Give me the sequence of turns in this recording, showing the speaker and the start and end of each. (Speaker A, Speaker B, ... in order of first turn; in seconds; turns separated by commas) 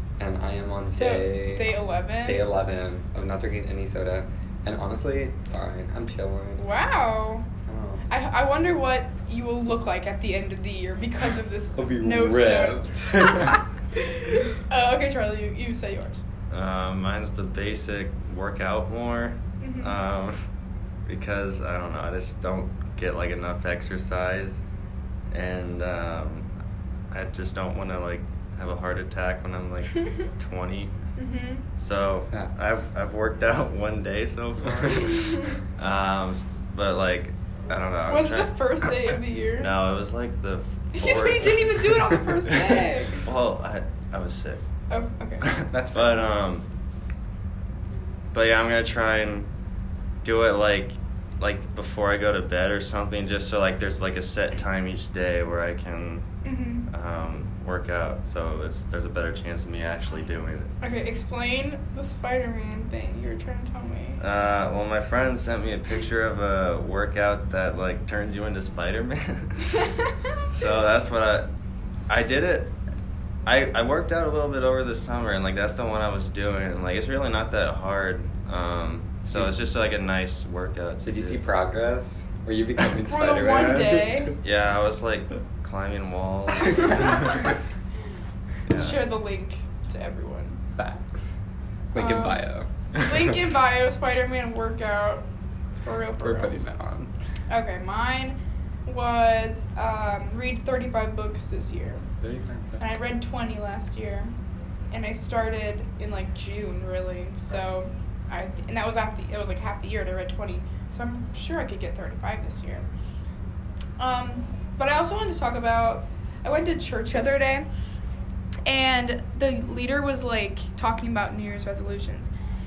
Speaker A: 0.2-6.6, Speaker B: 0.9-2.5, Speaker B: 6.6-7.5, Speaker A: 7.7-8.1, Speaker B: 8.1-16.2, Speaker A: 11.8-13.6, Speaker C: 16.5-20.4, Speaker B: 19.6-20.0, Speaker C: 21.1-24.6, Speaker C: 25.3-26.5, Speaker C: 27.1-30.9, Speaker B: 31.2-31.6, Speaker C: 31.8-38.9, Speaker B: 34.9-35.6, Speaker B: 38.1-39.7, Speaker C: 39.6-44.6, Speaker B: 40.9-43.2, Speaker B: 44.9-45.4, Speaker C: 45.4-46.6, Speaker A: 45.6-46.3, Speaker C: 48.3-49.5, Speaker C: 50.2-56.2, Speaker B: 56.4-56.9, Speaker C: 56.9-60.7, Speaker B: 60.8-64.2, Speaker C: 64.2-69.8, Speaker C: 70.5-71.5, Speaker C: 72.1-72.7, Speaker C: 73.5-81.4, Speaker A: 81.0-84.3, Speaker B: 83.1-84.3, Speaker C: 84.4-87.5, Speaker B: 86.7-87.6, Speaker C: 88.7-89.1, Speaker B: 88.7-90.6, Speaker A: 90.8-91.4, Speaker A: 91.9-92.7, Speaker B: 91.9-95.2, Speaker B: 95.8-96.6, Speaker A: 96.2-97.1, Speaker B: 97.5-102.0, Speaker A: 102.2-102.8, Speaker B: 102.8-104.3, Speaker B: 104.9-112.8, Speaker B: 114.0-117.7, Speaker B: 118.7-122.3